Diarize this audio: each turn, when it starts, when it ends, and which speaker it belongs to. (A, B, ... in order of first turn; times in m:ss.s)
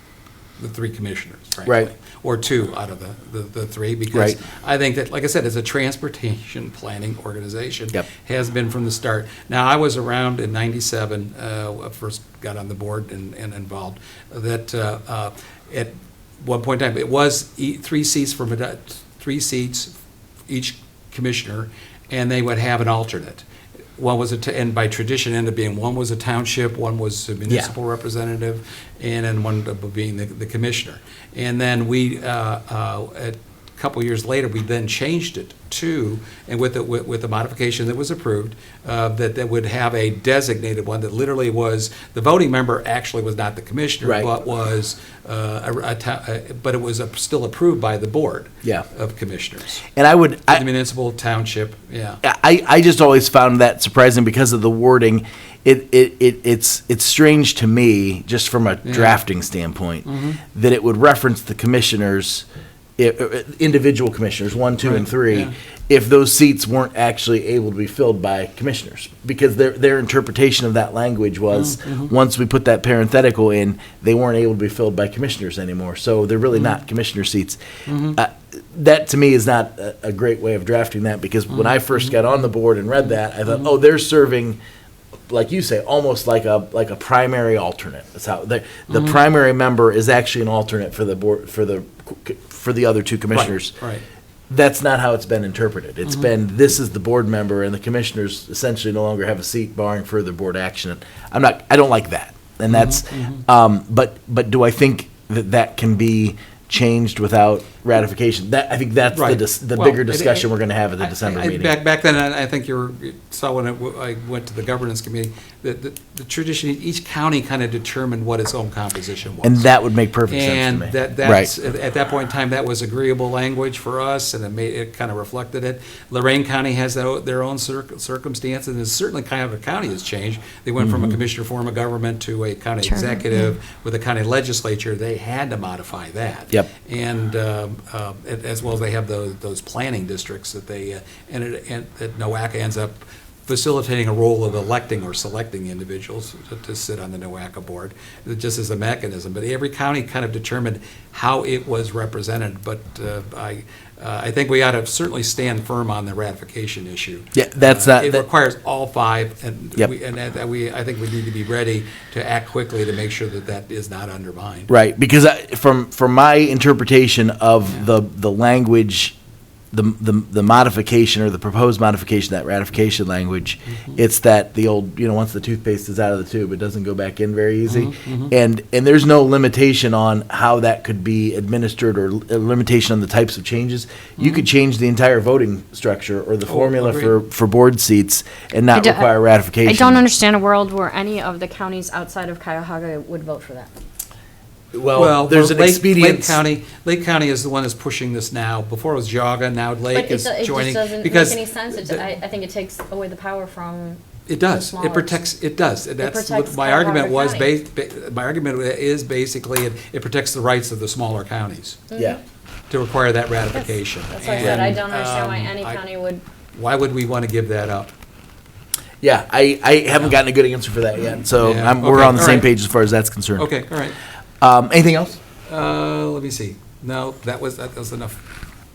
0:00.6-0:19.9 A
0:01.6-0:01.9 B
0:04.1-0:04.4 B
0:20.5-0:23.4 A
0:24.0-0:49.8 A
0:44.0-0:44.3 B
0:50.0-0:50.7 B
0:50.5-0:52.2 A
0:52.2-1:02.5 B
0:58.8-0:59.2 A
1:00.0-1:00.4 A
1:03.0-1:17.6 B
1:04.8-1:05.5 A
1:11.5-1:12.1 A
1:17.9-1:18.2 A
1:18.1-1:24.6 B
1:21.5-1:22.1 A
1:25.3-1:33.8 B
1:28.9-1:29.2 A
1:33.3-1:34.0 A
1:34.5-1:51.8 B
1:42.7-1:43.4 A
1:49.1-1:50.5 A
1:51.0-1:59.6 A
1:59.4-2:01.5 B
2:00.3-2:44.7 A
2:10.8-2:11.2 B
2:12.8-2:13.5 C
2:37.3-2:38.3 B
2:44.7-2:49.2 B
2:49.7-3:10.1 B
2:57.7-2:58.3 A
3:04.2-3:04.4 A
3:06.5-3:07.2 A
3:08.7-3:09.1 C
3:09.6-3:13.7 C
3:14.7-3:16.4 B
3:15.0-3:22.1 A
3:19.9-3:25.2 C
3:24.3-3:31.8 A
3:26.0-3:27.5 C
3:31.9-3:32.2 C
3:32.0-3:32.2 B
3:32.7-3:35.8 A
3:34.1-3:36.2 C
3:34.4-3:34.8 B
3:36.5-3:37.9 A
3:39.0-3:43.5 B
3:41.4-3:42.5 A
3:43.4-3:44.0 A
3:44.4-3:45.2 B
3:45.5-3:48.2 A